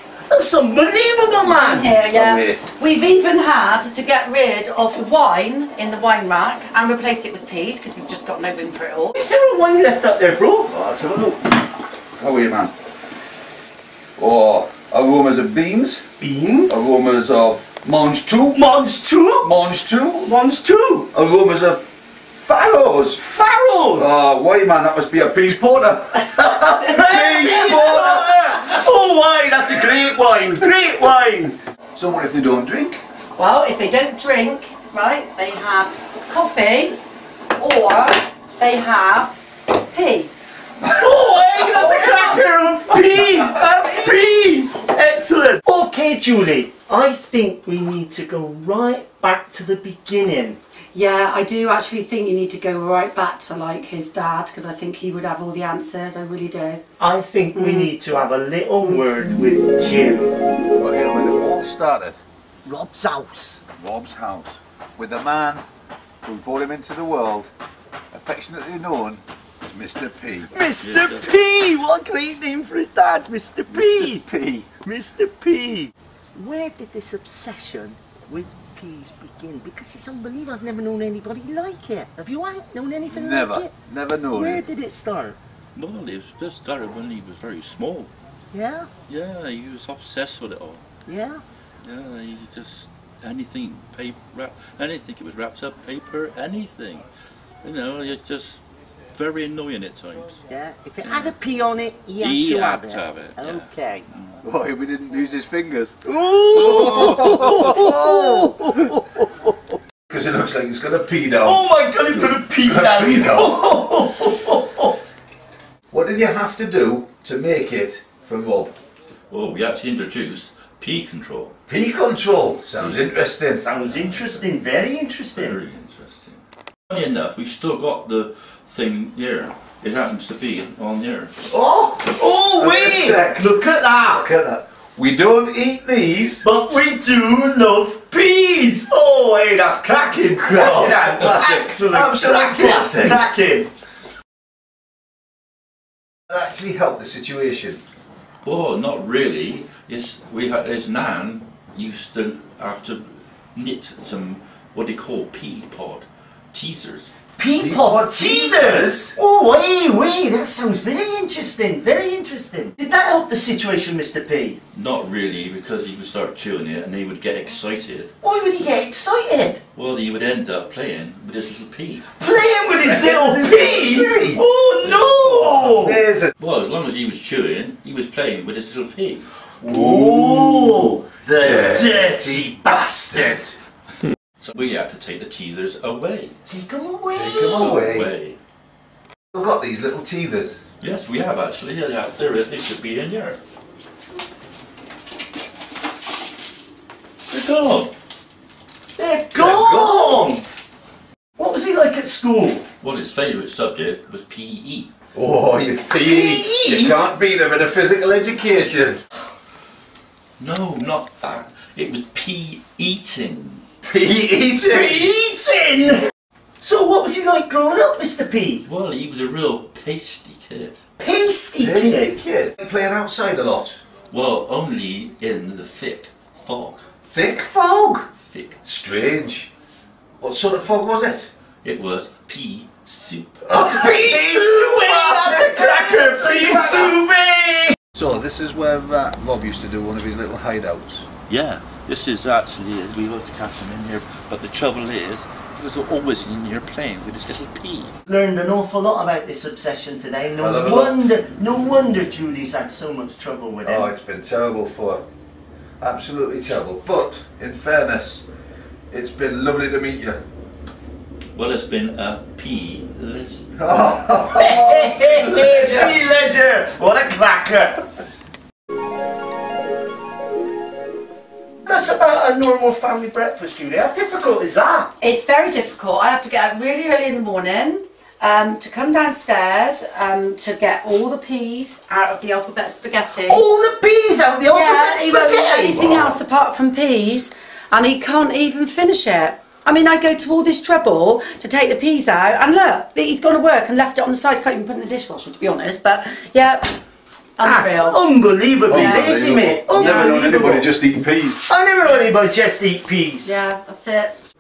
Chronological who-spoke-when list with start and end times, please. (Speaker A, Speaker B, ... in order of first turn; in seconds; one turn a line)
Speaker A: 0.3-1.9
Speaker B: 1.6-9.2
Speaker C: 2.0-2.6
Speaker A: 9.2-10.7
Speaker C: 10.7-11.7
Speaker C: 12.2-12.7
Speaker C: 14.2-16.1
Speaker A: 16.2-16.9
Speaker C: 16.7-18.7
Speaker A: 18.5-19.5
Speaker C: 19.4-20.3
Speaker A: 20.2-21.1
Speaker C: 21.1-23.2
Speaker A: 23.2-24.2
Speaker C: 24.0-28.8
Speaker A: 26.8-31.6
Speaker C: 31.9-33.0
Speaker B: 33.4-37.0
Speaker B: 37.6-39.4
Speaker B: 39.9-40.3
Speaker C: 40.8-44.2
Speaker A: 40.9-50.6
Speaker B: 50.9-56.8
Speaker A: 57.0-60.3
Speaker B: 57.6-57.9
Speaker C: 60.8-62.2
Speaker A: 62.6-63.6
Speaker C: 63.8-65.6
Speaker C: 66.2-67.5
Speaker C: 68.1-70.5
Speaker A: 70.5-74.2
Speaker D: 70.8-71.3
Speaker C: 73.7-74.7
Speaker A: 74.8-83.7
Speaker C: 83.1-84.6
Speaker A: 84.3-85.4
Speaker D: 85.8-88.1
Speaker A: 88.5-88.9
Speaker D: 89.1-90.8
Speaker A: 91.1-91.4
Speaker D: 91.8-97.0
Speaker D: 97.6-98.6
Speaker D: 99.1-100.4
Speaker A: 100.5-104.0
Speaker D: 101.0-101.3
Speaker D: 102.2-103.7
Speaker C: 104.4-108.9
Speaker A: 106.1-109.6
Speaker C: 110.1-113.7
Speaker A: 111.4-115.0
Speaker C: 115.9-118.8
Speaker D: 119.3-121.6
Speaker C: 121.7-123.6
Speaker D: 122.8-123.0
Speaker A: 123.6-125.6
Speaker D: 123.8-124.5
Speaker D: 125.3-131.3
Speaker C: 131.5-136.5
Speaker A: 132.1-134.3
Speaker A: 136.4-143.7
Speaker C: 140.4-143.2
Speaker C: 146.3-147.8
Speaker D: 148.4-157.1
Speaker A: 157.4-164.6
Speaker C: 157.6-159.2
Speaker D: 164.7-168.1
Speaker A: 168.2-169.6
Speaker D: 169.8-172.1
Speaker A: 172.2-176.0
Speaker C: 172.8-174.4
Speaker D: 174.8-175.5
Speaker C: 175.5-176.3
Speaker D: 176.4-179.2
Speaker C: 179.6-183.4
Speaker A: 179.6-183.5
Speaker D: 184.4-186.3
Speaker A: 186.5-187.8
Speaker C: 187.1-188.1
Speaker D: 187.4-188.4
Speaker C: 189.3-190.6
Speaker D: 190.8-193.4
Speaker D: 197.3-197.9
Speaker A: 199.0-200.4
Speaker C: 199.3-200.3
Speaker A: 201.4-202.6
Speaker D: 202.8-204.9
Speaker C: 205.1-209.0
Speaker A: 205.9-207.0
Speaker D: 210.4-213.6
Speaker C: 213.8-215.1
Speaker A: 214.7-216.1
Speaker A: 216.6-218.7
Speaker D: 218.7-220.8
Speaker A: 221.0-222.1
Speaker C: 221.6-223.8
Speaker D: 224.1-226.8
Speaker C: 227.1-228.1
Speaker D: 228.3-228.6
Speaker C: 228.6-229.5
Speaker C: 230.2-231.3
Speaker D: 231.6-233.5
Speaker C: 233.5-237.0
Speaker A: 233.5-237.8
Speaker C: 237.9-241.1
Speaker D: 241.3-247.9
Speaker A: 248.1-253.9
Speaker C: 250.4-251.1
Speaker C: 253.6-255.0
Speaker C: 255.8-258.3
Speaker C: 258.9-260.2
Speaker D: 261.3-264.0
Speaker C: 263.6-266.0
Speaker A: 264.3-267.8
Speaker A: 271.6-274.9
Speaker B: 275.0-283.4
Speaker A: 283.3-285.9
Speaker B: 284.5-296.8
Speaker C: 285.8-286.2
Speaker B: 297.4-298.0
Speaker A: 297.4-300.7
Speaker C: 298.7-301.4
Speaker B: 299.8-300.2
Speaker A: 301.5-303.4
Speaker B: 303.2-304.1